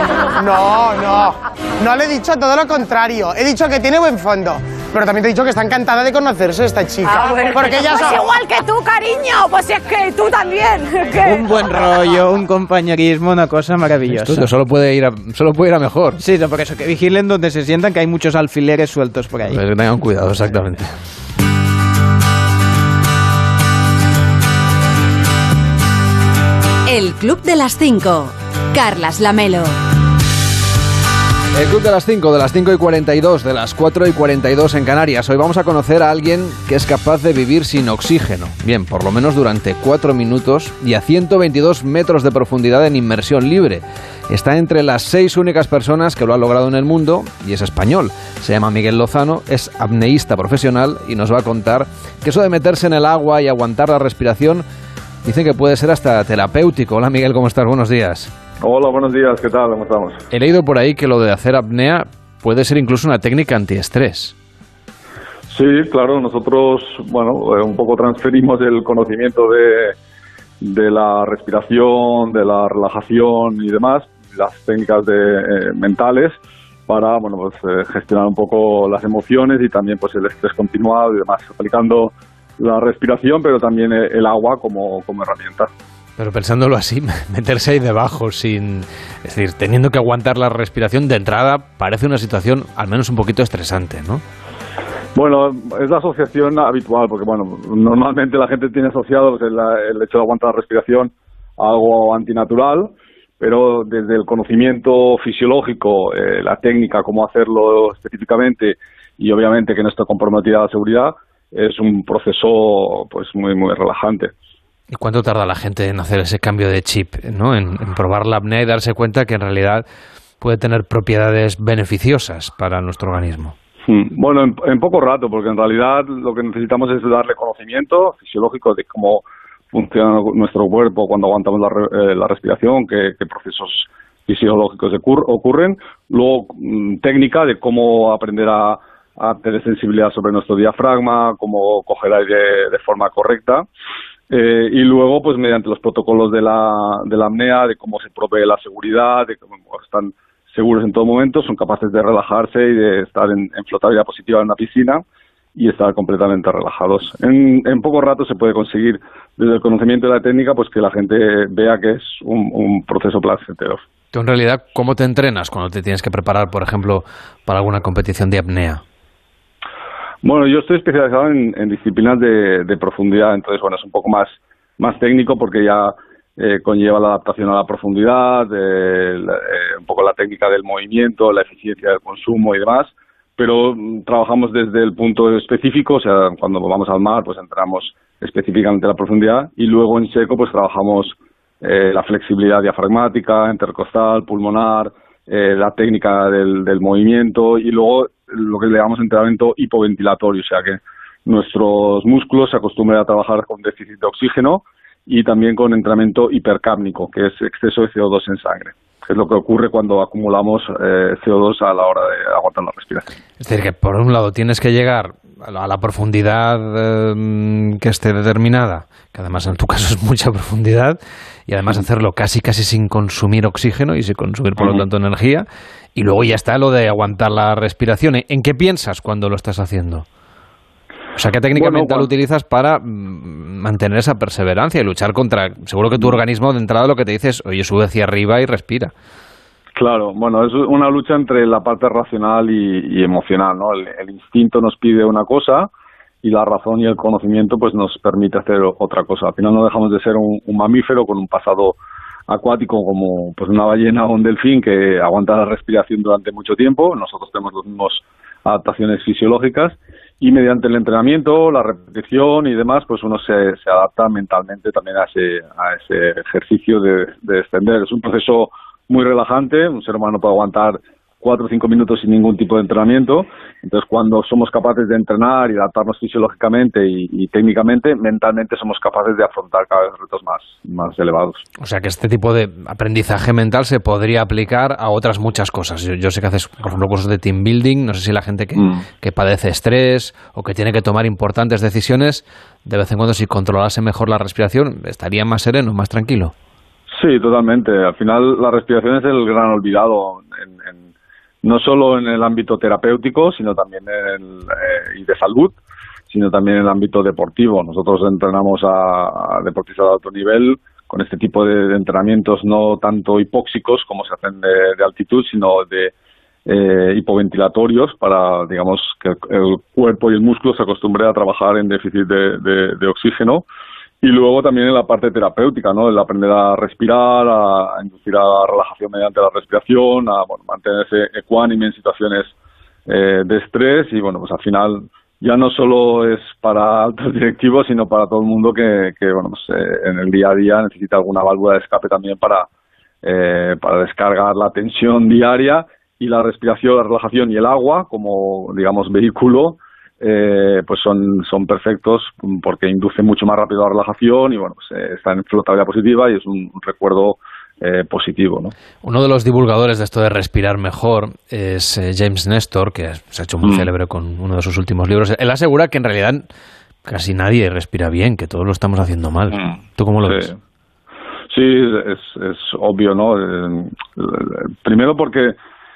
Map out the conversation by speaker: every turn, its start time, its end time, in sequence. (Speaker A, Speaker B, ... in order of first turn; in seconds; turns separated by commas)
Speaker A: 0.4-8.3, Speaker B: 7.1-11.9, Speaker C: 11.2-14.5, Speaker D: 14.1-16.2, Speaker C: 16.2-19.6, Speaker D: 19.5-20.9, Speaker E: 26.9-29.8, Speaker D: 31.6-54.7, Speaker D: 55.2-58.3, Speaker F: 58.6-60.2, Speaker D: 60.3-64.3, Speaker F: 65.5-70.0, Speaker F: 70.6-76.4, Speaker F: 76.9-85.7, Speaker D: 86.2-94.2, Speaker F: 95.2-114.3, Speaker D: 114.9-119.9, Speaker D: 120.4-123.5, Speaker F: 123.9-143.7, Speaker F: 144.3-155.0, Speaker F: 155.6-163.8, Speaker D: 164.1-168.8, Speaker F: 170.2-213.1, Speaker D: 213.4-230.1, Speaker F: 224.6-224.8, Speaker D: 231.2-238.9, Speaker F: 231.5-232.1, Speaker F: 239.8-245.7, Speaker F: 246.2-251.8, Speaker F: 252.3-281.4, Speaker D: 281.6-296.3, Speaker F: 288.6-288.9, Speaker F: 297.0-300.9, Speaker F: 301.4-305.6, Speaker F: 306.1-315.9, Speaker F: 316.5-323.5, Speaker F: 324.0-332.3, Speaker F: 332.9-342.5, Speaker F: 343.0-358.5, Speaker D: 358.8-366.3, Speaker D: 366.9-370.4, Speaker F: 370.1-370.3, Speaker F: 371.3-375.4